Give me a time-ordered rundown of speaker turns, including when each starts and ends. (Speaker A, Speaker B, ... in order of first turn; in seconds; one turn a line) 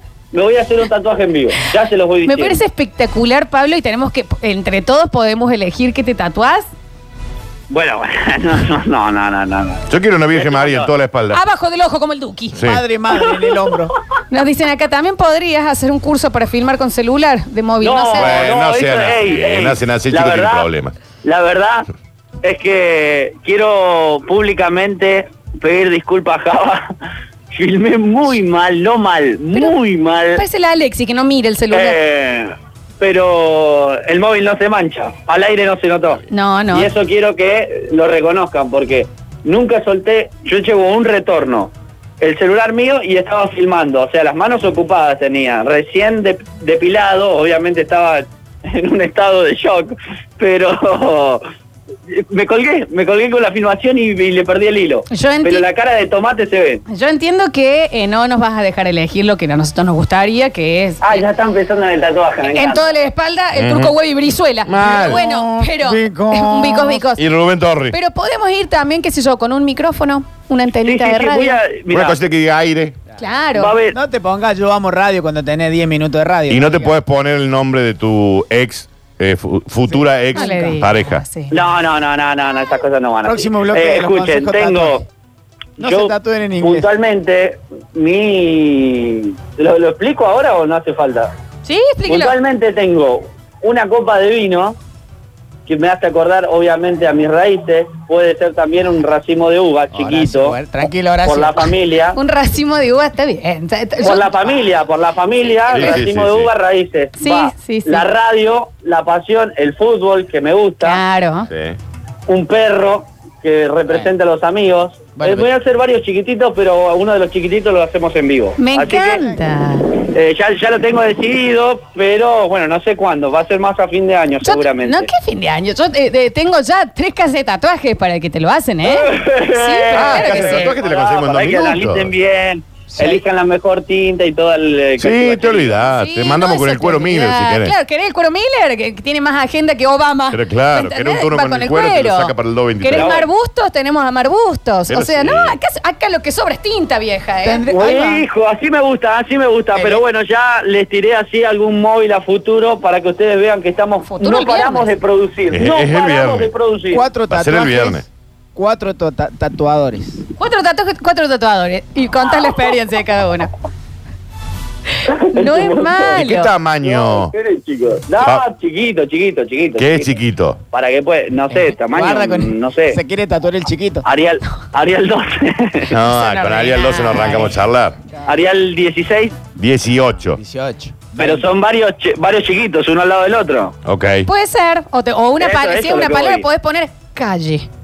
Speaker A: 0.3-2.6
Speaker B: 2.2-6.7
Speaker A: 7.7-10.9
Speaker C: 9.9-11.4
Speaker B: 11.3-12.6
Speaker C: 12.6-12.8
Speaker D: 12.6-13.9
Speaker B: 14.3-18.4
Speaker A: 17.8-20.7
Speaker C: 18.2-20.9
Speaker A: 21.2-21.9
Speaker A: 22.4-26.9
Speaker A: 27.5-30.4
Speaker B: 30.4-32.0
Speaker A: 31.7-51.5
Speaker B: 36.3-36.9
Speaker A: 52.1-56.8
Speaker B: 55.1-55.7
Speaker B: 56.9-61.2
Speaker A: 61.0-62.9
Speaker B: 62.5-67.2
Speaker C: 63.5-64.0
Speaker C: 64.7-65.2
Speaker D: 64.8-67.0
Speaker C: 67.2-68.0
Speaker B: 67.9-71.6
Speaker A: 70.8-72.2
Speaker C: 71.9-73.0
Speaker B: 73.2-73.8
Speaker A: 73.6-74.0
Speaker D: 73.9-77.0
Speaker C: 76.5-81.2
Speaker D: 79.9-80.5
Speaker B: 80.3-81.5
Speaker A: 81.5-85.0
Speaker D: 83.2-85.0
Speaker A: 85.8-91.3
Speaker D: 85.8-86.9
Speaker B: 91.7-92.3
Speaker A: 92.1-94.8
Speaker A: 95.7-100.6
Speaker D: 99.9-101.7
Speaker A: 101.2-102.2
Speaker B: 102.1-104.5
Speaker A: 104.0-111.0
Speaker C: 105.7-106.5
Speaker B: 107.2-108.1
Speaker B: 110.8-111.5
Speaker C: 111.5-111.8
Speaker A: 112.3-119.2
Speaker D: 115.2-115.5
Speaker B: 118.6-119.9
Speaker A: 120.1-125.1
Speaker B: 124.4-130.7
Speaker A: 128.9-135.8
Speaker C: 129.9-132.1
Speaker D: 132.9-133.2
Speaker C: 135.0-137.8
Speaker B: 135.9-147.6
Speaker C: 140.3-143.1
Speaker A: 142.9-143.2
Speaker C: 144.9-145.6
Speaker D: 147.4-148.2
Speaker A: 147.7-157.1
Speaker B: 154.1-154.9
Speaker C: 155.5-156.5
Speaker D: 156.9-160.2
Speaker C: 157.3-158.0
Speaker B: 160.4-163.5
Speaker A: 165.1-166.2
Speaker B: 165.3-166.5
Speaker C: 166.2-167.3
Speaker A: 166.8-170.2
Speaker C: 169.8-170.6
Speaker A: 170.7-173.0
Speaker D: 171.9-174.1
Speaker A: 174.1-175.9
Speaker C: 175.9-178.0
Speaker B: 176.0-177.6
Speaker A: 178.3-179.4
Speaker C: 179.6-180.4
Speaker D: 180.3-181.5
Speaker A: 181.2-183.8
Speaker C: 183.8-184.3
Speaker B: 184.3-187.7
Speaker A: 185.4-186.5